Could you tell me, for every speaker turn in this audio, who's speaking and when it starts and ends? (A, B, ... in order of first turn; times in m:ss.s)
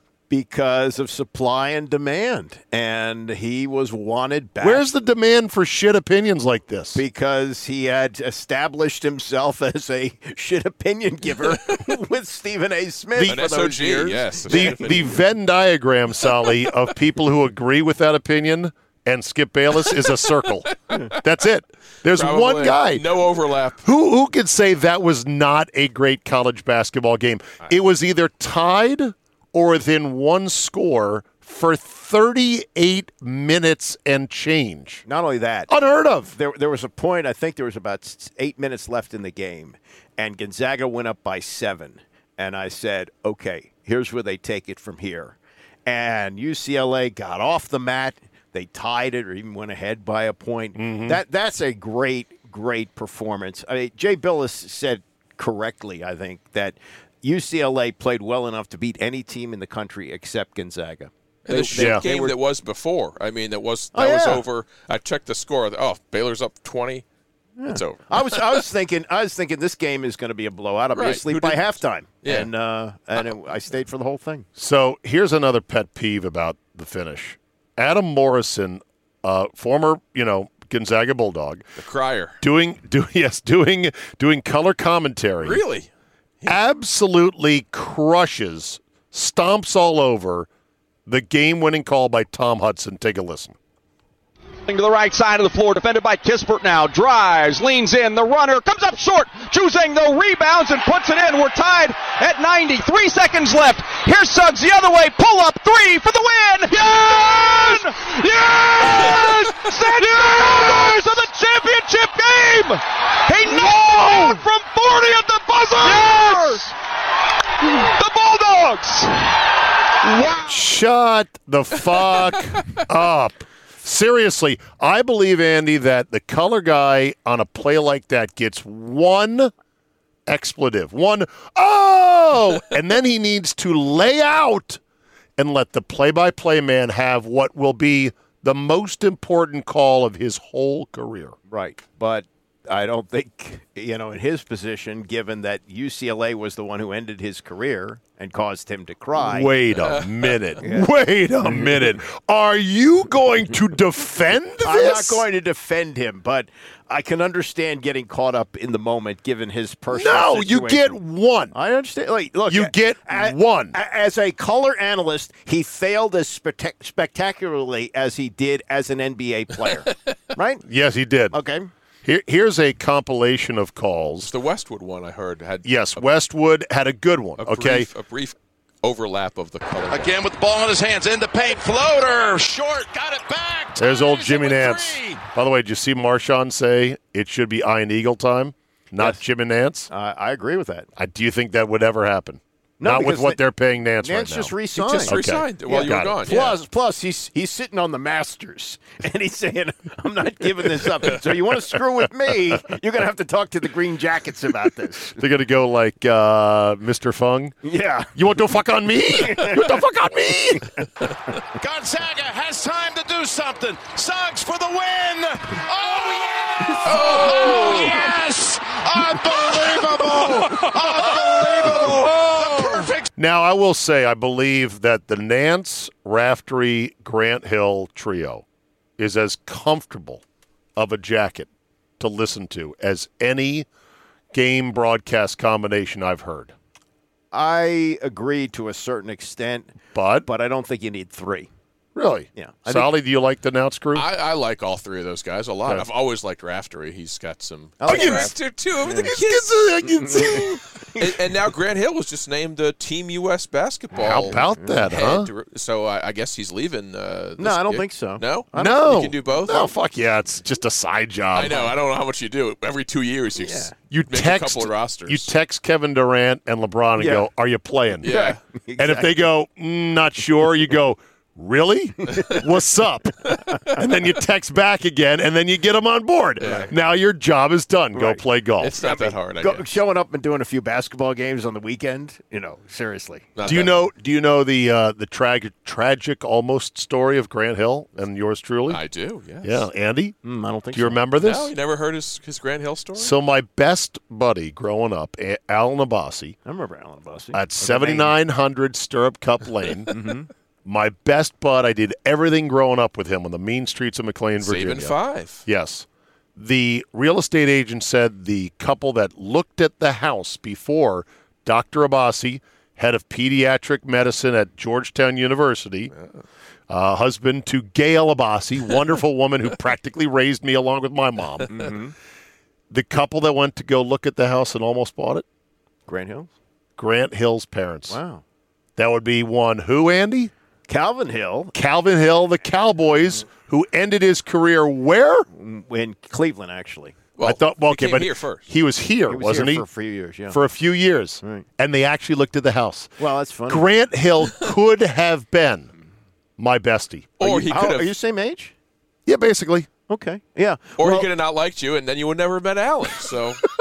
0:00.3-0:04.8 A
0:04.6-0:07.0 B
0:07.0-0:15.1 A
0:13.2-0:13.4 B
0:13.2-0:15.2 C
0:14.5-0:23.0 B
0:22.1-0:23.8 C
0:23.8-0:35.0 B
0:35.1-0:35.7 A
0:35.7-0:36.3 B
0:36.3-1:02.4 A
0:50.8-0:51.2 B
1:01.4-1:07.0 C
1:01.7-1:02.0 B
1:03.9-1:04.4 A
1:07.6-1:14.5 A
1:07.7-1:08.6 C
1:10.9-1:12.5 C
1:14.6-1:21.6 B
1:21.8-1:22.4 C
1:22.4-1:25.6 B
1:25.4-1:25.9 C
1:26.4-1:30.5 B
1:31.0-1:33.5 B
1:34.7-1:56.7 D
1:57.7-1:59.3 D
2:00.0-2:00.4 D
2:00.4-2:09.5 B
2:10.3-2:14.8 B
2:15.4-2:21.4 B
2:21.5-2:29.5 A
2:29.2-2:35.2 B
2:29.7-2:30.6 C
2:30.6-2:30.9 A
2:31.4-2:31.8 A
2:34.6-2:40.9 A
2:39.9-2:41.6 B
2:41.5-2:50.6 A
2:42.5-2:43.8 B
2:50.6-2:51.4 B
2:51.3-2:51.7 A
2:52.0-2:54.3 B
2:54.2-2:56.0 C
2:55.6-2:57.9 B
2:57.4-3:00.1 C
2:59.9-3:05.2 E
3:03.8-3:09.9 B
3:09.9-3:10.9 A
3:11.0-3:14.5 B
3:12.8-3:13.4 A
3:14.0-3:25.2 A
3:14.8-3:16.6 C
3:15.1-3:16.2 B
3:25.2-3:27.5 B
3:27.6-3:28.1 A
3:28.1-3:30.7 B
3:29.2-3:29.7 A
3:31.6-3:43.1 E
3:36.8-3:37.9 A
3:36.8-3:37.9 C
3:43.2-3:48.4 B
3:49.0-3:50.2 B
3:50.8-3:51.5 B
3:52.0-3:53.7 B
3:54.3-3:56.5 B
3:57.3-4:01.5 A
3:59.9-4:00.3 B
4:02.0-4:04.0 B
4:02.3-4:02.9 A
4:03.9-4:10.5 C
4:07.8-4:09.1 A
4:07.9-4:08.3 B
4:08.9-4:10.6 B
4:09.8-4:11.1 A
4:11.0-4:19.7 C
4:14.0-4:15.3 B
4:14.1-4:14.9 A
4:17.4-4:18.9 A
4:18.5-4:21.7 B
4:21.3-4:25.3 C
4:21.4-4:21.7 A
4:23.4-4:23.7 A
4:23.9-4:28.2 B
4:27.0-4:27.3 A
4:28.0-4:28.4 C
4:28.0-4:29.2 A
4:28.8-4:38.8 B
4:32.1-4:32.4 A
4:36.4-4:36.7 C
4:36.4-4:36.7 A
4:37.9-4:38.2 A
4:38.6-4:39.8 C
4:38.8-4:43.3 A
4:43.4-4:43.9 C
4:43.4-4:48.8 B
4:48.7-4:49.6 C
4:49.4-4:50.2 B
4:50.2-4:51.0 A
4:50.7-4:51.5 B
4:51.2-4:53.1 C
4:53.0-4:56.4 B
4:56.4-4:58.1 A
4:57.3-4:59.9 B
4:59.9-5:00.3 A
5:00.6-5:04.9 B
5:04.4-5:05.4 C
5:05.4-5:15.9 B
5:16.7-5:21.7 B
5:21.5-5:21.9 A
5:22.7-5:25.2 B
5:25.9-5:26.3 A
5:26.8-5:28.0 B
5:27.9-5:28.2 A
5:28.8-5:30.3 B
5:30.7-5:31.5 A
5:31.5-5:35.3 B
5:35.3-5:37.0 A
5:37.2-5:38.5 C
5:37.2-5:39.6 B
5:39.1-5:40.4 A
5:40.3-5:42.9 B
5:41.2-5:41.5 A
5:43.0-5:43.6 A
5:43.5-5:45.7 B
5:46.4-5:47.2 B
5:47.2-5:47.9 C
5:47.2-5:48.5 A
5:49.0-5:49.7 B
5:49.9-5:51.1 A
5:50.8-5:53.4 C